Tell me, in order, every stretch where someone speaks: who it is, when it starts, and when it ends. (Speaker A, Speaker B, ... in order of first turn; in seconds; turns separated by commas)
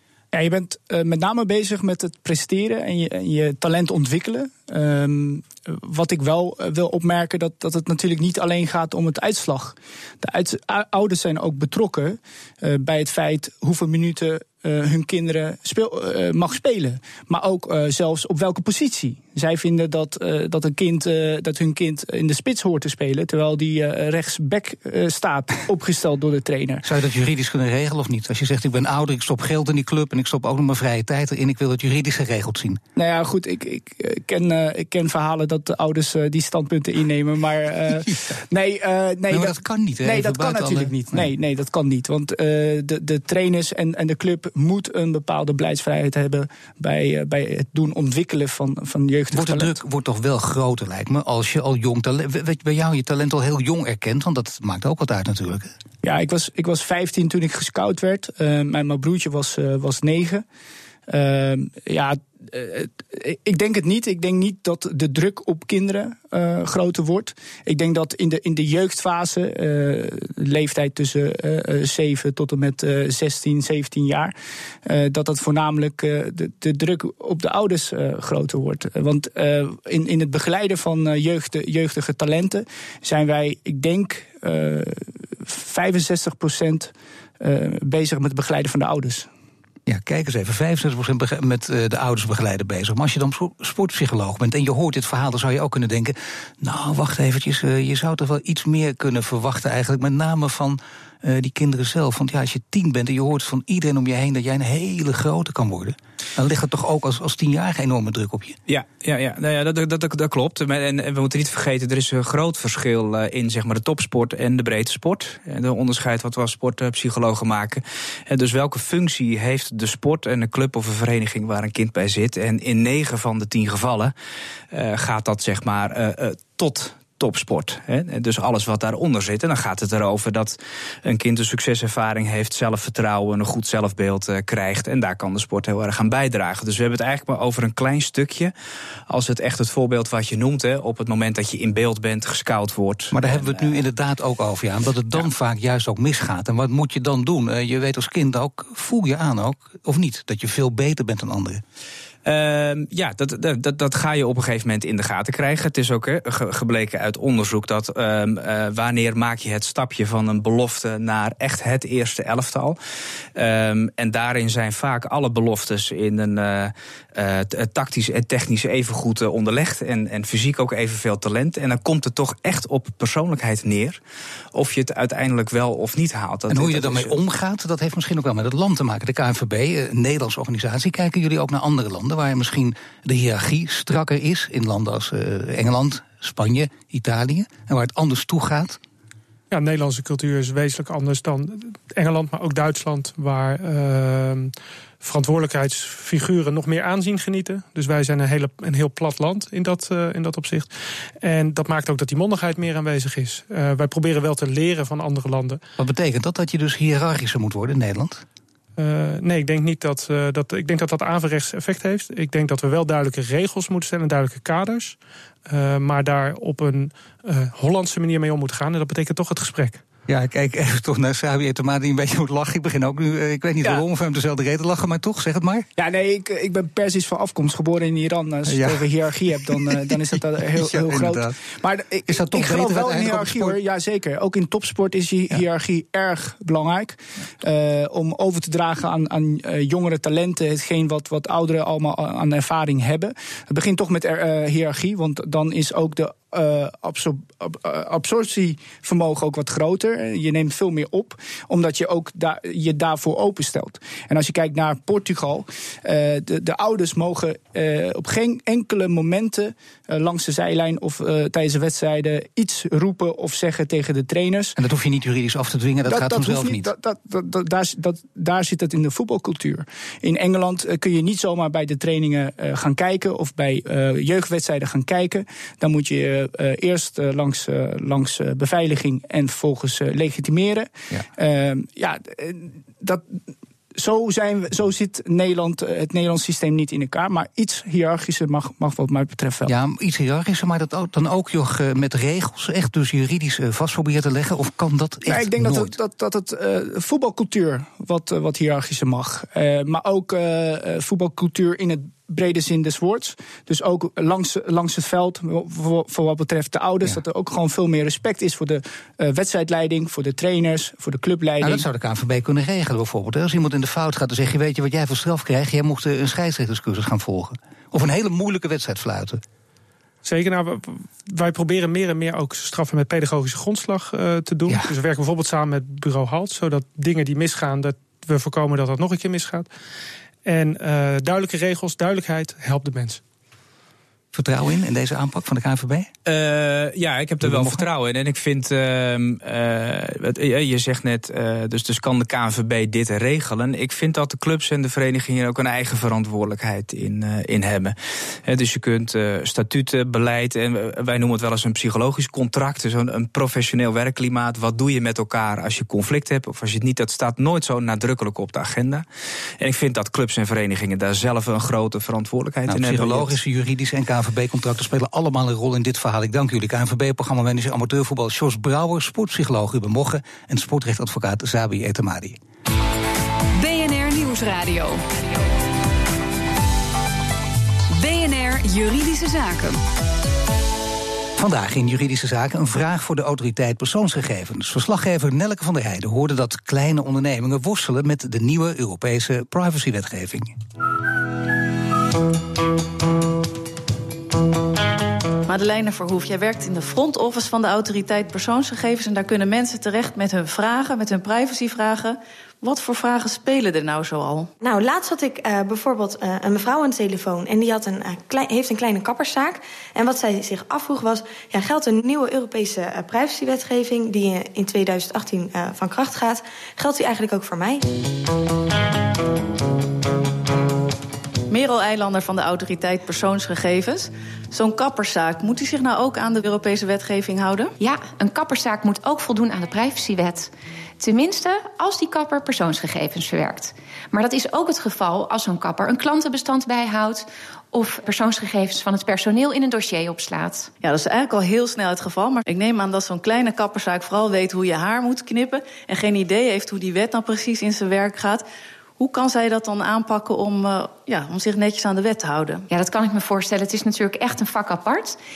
Speaker A: 0.3-26.8, Speaker B: 26.8-32.8, Speaker A: 33.0-49.7, Speaker B: 39.3-41.3, Speaker B: 49.3-55.7, Speaker A: 56.0-60.4, Speaker A: 61.1-74.3, Speaker A: 74.8-89.3, Speaker B: 89.9-108.6, Speaker C: 108.7-124.1, Speaker C: 124.7-138.5, Speaker C: 139.1-143.8, Speaker B: 143.1-151.6, Speaker C: 152.2-162.8, Speaker C: 163.3-174.0, Speaker C: 174.5-177.2, Speaker B: 176.5-188.8, Speaker D: 189.5-200.7, Speaker D: 201.2-205.6, Speaker B: 205.8-208.2, Speaker D: 208.8-219.8, Speaker B: 220.1-225.7, Speaker A: 225.8-264.6, Speaker B: 228.5-231.4, Speaker B: 232.1-233.6, Speaker B: 264.6-266.7, Speaker A: 265.9-283.1, Speaker A: 283.7-289.5, Speaker B: 289.4-295.7, Speaker A: 295.1-311.6, Speaker B: 311.4-319.2, Speaker D: 320.0-329.5, Speaker D: 330.2-333.0, Speaker B: 334.1-335.9, Speaker C: 336.1-358.8, Speaker B: 337.2-337.6, Speaker C: 359.4-363.1, Speaker B: 362.5-372.2, Speaker E: 373.3-375.2, Speaker E: 377.7-379.6, Speaker B: 381.1-390.4, Speaker F: 395.3-404.3, Speaker G: 404.4-417.6, Speaker F: 421.3-427.5, Speaker H: 427.6-440.5, Speaker F: 440.6-448.2, Speaker F: 448.8-452.4, Speaker H: 452.5-455.0